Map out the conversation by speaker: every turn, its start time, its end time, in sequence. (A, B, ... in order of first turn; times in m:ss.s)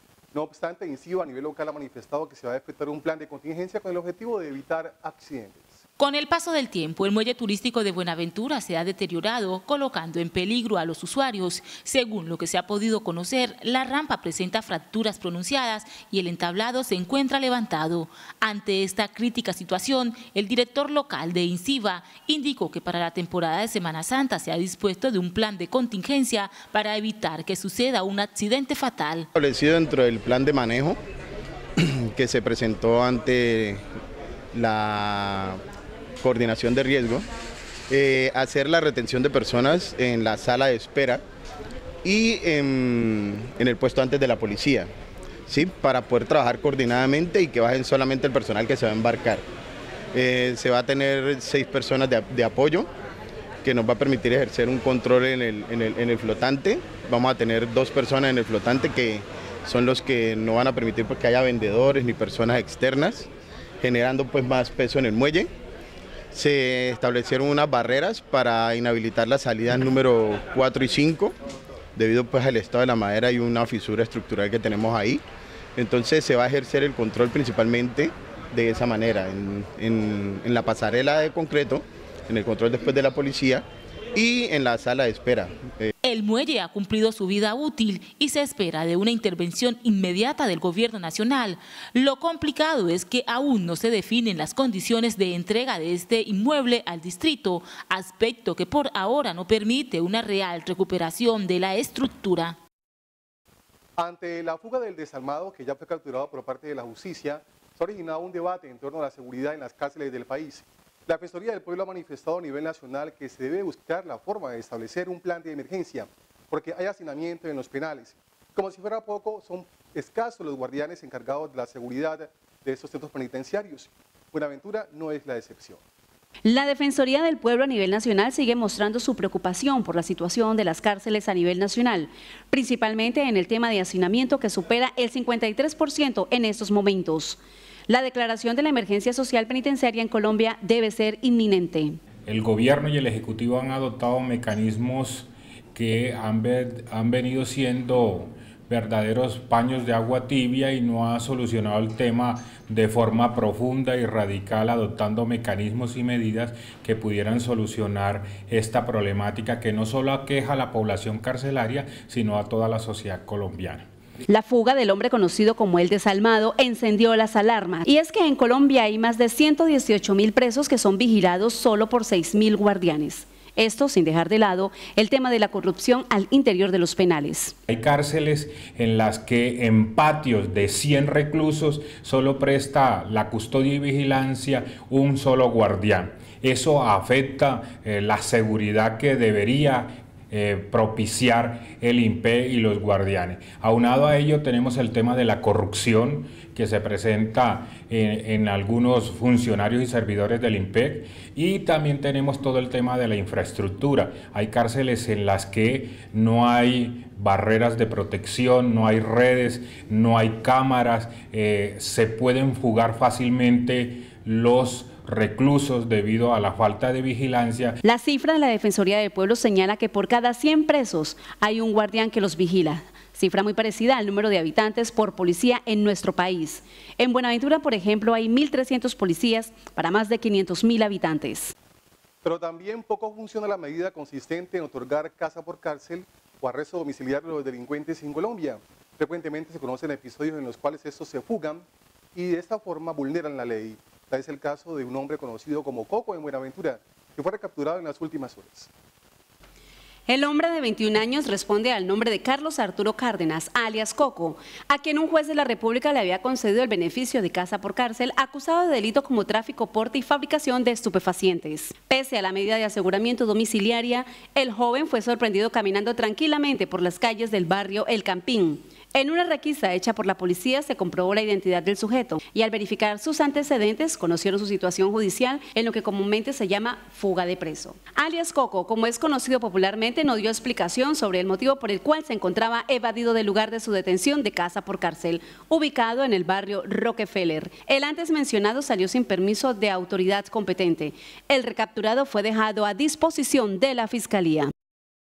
0:00.3-0:05.8 A
0:06.0-0:29.3 B
0:29.4-0:31.0 C
0:31.8-0:33.8 C
0:34.5-0:35.6 C
0:36.2-0:37.3 C
0:37.9-0:41.2 C
0:42.0-0:44.9 C
0:45.5-0:49.4 C
0:50.1-0:52.9 C
0:53.6-1:03.3 C
1:03.8-1:05.5 C
1:06.3-1:11.3 C
1:12.0-1:15.2 C
1:15.8-1:25.9 C
1:26.0-1:42.6 B
1:44.0-2:05.8 A
2:06.4-2:22.0 D
2:22.3-2:43.9 E
2:44.3-2:57.5 D
2:57.7-3:37.8 E
3:37.8-3:51.5 D
3:52.2-4:08.7 A
4:10.1-4:54.5 D